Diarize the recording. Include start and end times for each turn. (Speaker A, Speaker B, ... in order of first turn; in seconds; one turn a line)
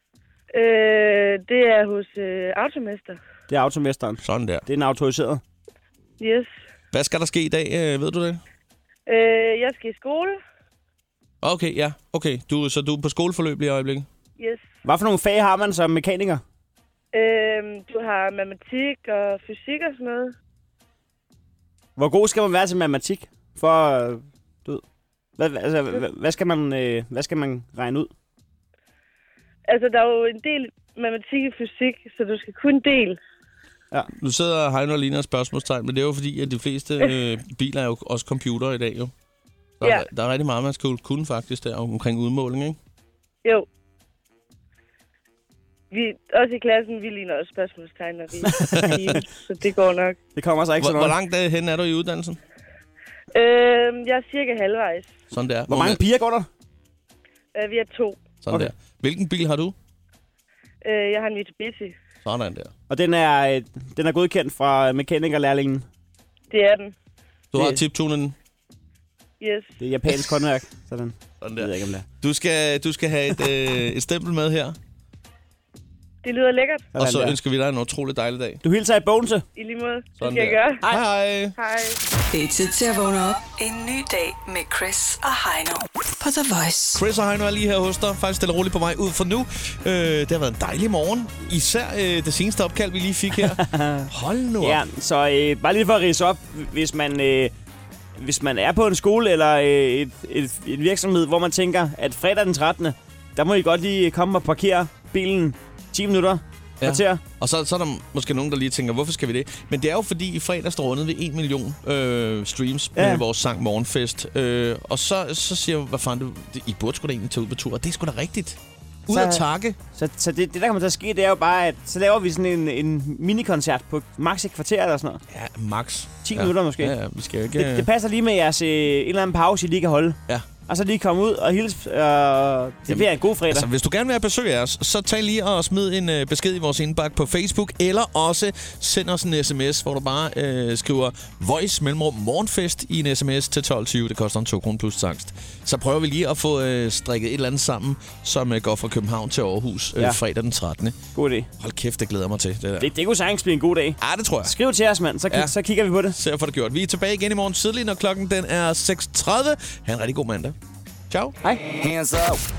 Speaker A: 0.5-3.2
Speaker B: 3.5-5.4
Speaker C: 4.2-4.6
Speaker A: 6.2-6.5
Speaker C: 6.9-8.4
Speaker A: 9.1-10.4
Speaker C: 11.4-14.1
Speaker B: 14.8-16.4
Speaker A: 17.1-20.3
Speaker B: 22.0-24.8
Speaker B: 25.4-28.1
Speaker A: 29.7-33.2
Speaker C: 34.2-39.1
Speaker C: 39.8-42.8
Speaker A: 45.9-50.2
Speaker B: 48.5-49.2
Speaker C: 48.7-49.2
Speaker B: 50.4-51.1
Speaker C: 50.8-52.4
Speaker A: 53.3-55.1
Speaker C: 55.3-56.0
Speaker B: 55.7-56.5
Speaker A: 57.5-58.2
Speaker C: 58.4-59.7
Speaker A: 60.8-61.9
Speaker C: 62.2-62.7
Speaker B: 62.9-65.8
Speaker A: 66.5-66.9
Speaker C: 67.5-68.3
Speaker B: 67.5-67.8
Speaker A: 69.4-69.7
Speaker B: 69.8-72.0
Speaker C: 71.4-74.8
Speaker A: 76.2-76.9
Speaker B: 76.9-77.4
Speaker C: 77.0-78.6
Speaker B: 78.6-79.4
Speaker A: 79.5-80.8
Speaker C: 80.2-81.5
Speaker A: 81.5-82.0
Speaker D: 82.3-87.0
Speaker C: 87.0-94.8
Speaker B: 93.5-94.1
Speaker B: 94.6-97.5
Speaker B: 98.2-107.2
Speaker C: 106.8-119.8
Speaker B: 113.0-113.2
Speaker B: 119.1-119.4
Speaker B: 119.9-125.2
Speaker C: 125.3-127.9
Speaker B: 126.2-127.0
Speaker B: 127.5-133.7
Speaker C: 132.9-151.0
Speaker B: 151.1-151.5
Speaker C: 151.6-152.9
Speaker B: 152.8-156.2
Speaker C: 154.0-154.5
Speaker C: 155.3-155.5
Speaker C: 156.1-160.6
Speaker C: 161.1-161.4
Speaker B: 161.4-161.8